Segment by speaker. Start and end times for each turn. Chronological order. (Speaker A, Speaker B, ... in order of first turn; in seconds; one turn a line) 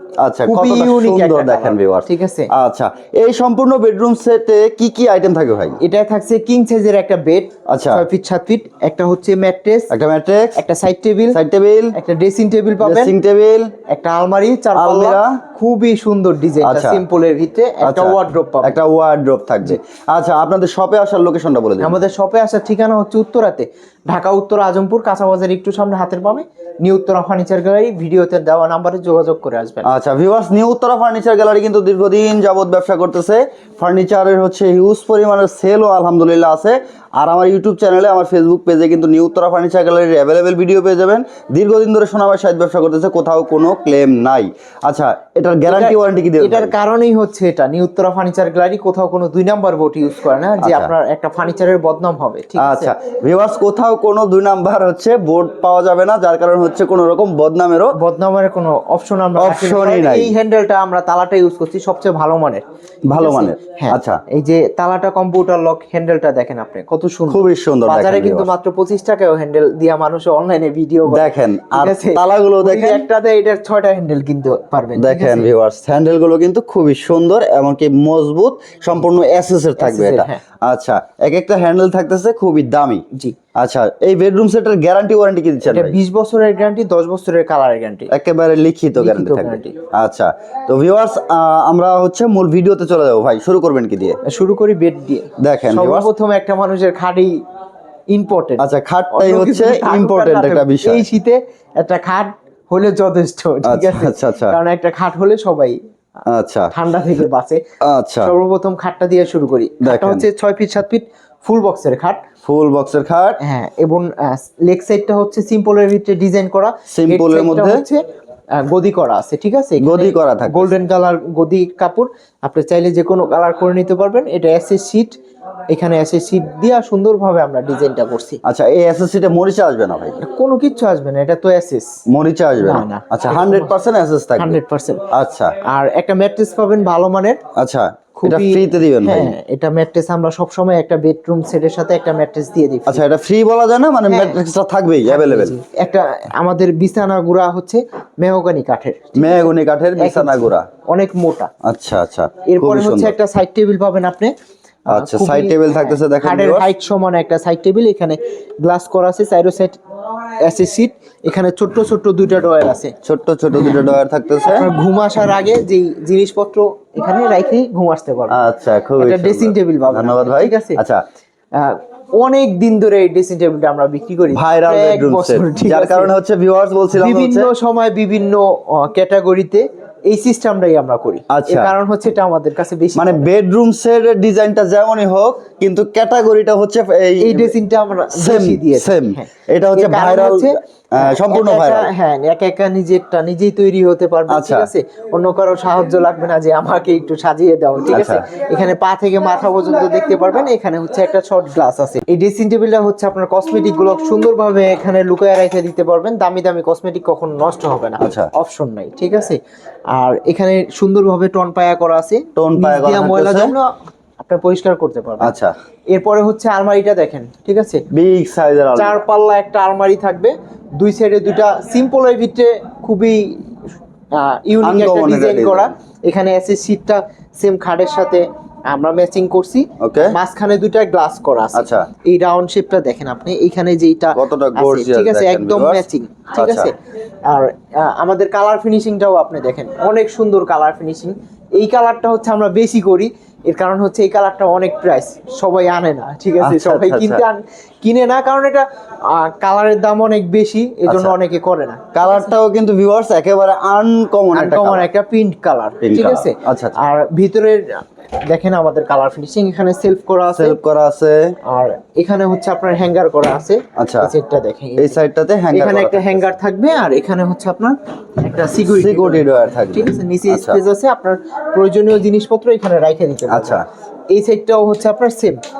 Speaker A: 0.2-5.8
Speaker B: 0.5-2.5
Speaker B: 5.8-9.9
Speaker A: 7.7-8.1
Speaker A: 9.9-10.6
Speaker B: 10.6-11.4
Speaker A: 11.3-11.9
Speaker B: 11.9-13.1
Speaker A: 12.8-13.7
Speaker B: 13.9-18.8
Speaker A: 14.7-15.4
Speaker A: 16.6-17.0
Speaker A: 17.8-22.0
Speaker B: 21.8-29.9
Speaker A: 29.8-46.7
Speaker B: 45.7-52.9
Speaker A: 50.6-50.9
Speaker A: 52.6-58.0
Speaker B: 57.9-75.5
Speaker A: 59.4-60.3
Speaker A: 63.1-64.2
Speaker A: 67.3-68.5
Speaker A: 71.1-73.0
Speaker A: 75.0-83.0
Speaker B: 79.8-80.4
Speaker A: 83.5-86.0
Speaker B: 85.7-88.1
Speaker A: 88.1-94.2
Speaker B: 89.0-89.7
Speaker B: 94.2-97.4
Speaker A: 95.4-96.1
Speaker B: 98.1-105.8
Speaker A: 98.6-101.0
Speaker A: 103.6-104.6
Speaker A: 106.3-107.2
Speaker B: 106.7-107.6
Speaker A: 107.8-108.3
Speaker B: 108.2-112.2
Speaker A: 109.8-110.2
Speaker A: 112.4-113.4
Speaker B: 113.4-118.0
Speaker A: 116.9-117.8
Speaker B: 118.5-125.2
Speaker A: 119.8-120.7
Speaker B: 125.7-128.4
Speaker A: 128.4-130.2
Speaker B: 130.2-132.0
Speaker A: 132.1-134.6
Speaker B: 132.6-133.7
Speaker B: 134.4-135.0
Speaker A: 135.1-135.5
Speaker B: 135.6-137.4
Speaker A: 137.6-139.3
Speaker B: 138.2-143.0
Speaker A: 142.9-145.6
Speaker B: 144.1-144.4
Speaker B: 145.1-151.5
Speaker A: 149.2-150.7
Speaker A: 151.6-153.1
Speaker B: 152.4-154.3
Speaker B: 154.8-159.8
Speaker A: 154.9-156.7
Speaker B: 160.4-162.9
Speaker A: 163.0-164.7
Speaker B: 164.4-168.4
Speaker A: 168.3-171.0
Speaker B: 169.0-170.8
Speaker B: 171.5-176.1
Speaker A: 174.3-177.5
Speaker B: 176.9-183.2
Speaker A: 181.3-181.7
Speaker A: 182.9-187.5
Speaker B: 187.2-209.4
Speaker A: 188.1-191.9
Speaker A: 194.3-194.7
Speaker A: 197.9-198.2
Speaker A: 208.0-208.3
Speaker B: 209.9-215.3
Speaker A: 212.3-213.5
Speaker A: 215.2-215.5
Speaker B: 215.9-217.8
Speaker A: 217.9-219.0
Speaker B: 218.8-223.4
Speaker B: 224.1-236.7
Speaker A: 224.6-225.7
Speaker A: 229.8-230.2
Speaker A: 231.5-231.9
Speaker A: 234.1-235.8
Speaker A: 236.4-236.7
Speaker B: 237.3-252.3
Speaker A: 246.4-247.2
Speaker A: 250.9-251.2
Speaker A: 251.9-254.8
Speaker B: 254.3-260.6
Speaker A: 255.8-256.8
Speaker A: 260.3-261.3
Speaker B: 261.4-265.0
Speaker A: 263.8-264.1
Speaker A: 264.8-266.3
Speaker B: 265.5-275.4
Speaker A: 268.6-270.6
Speaker A: 273.3-273.6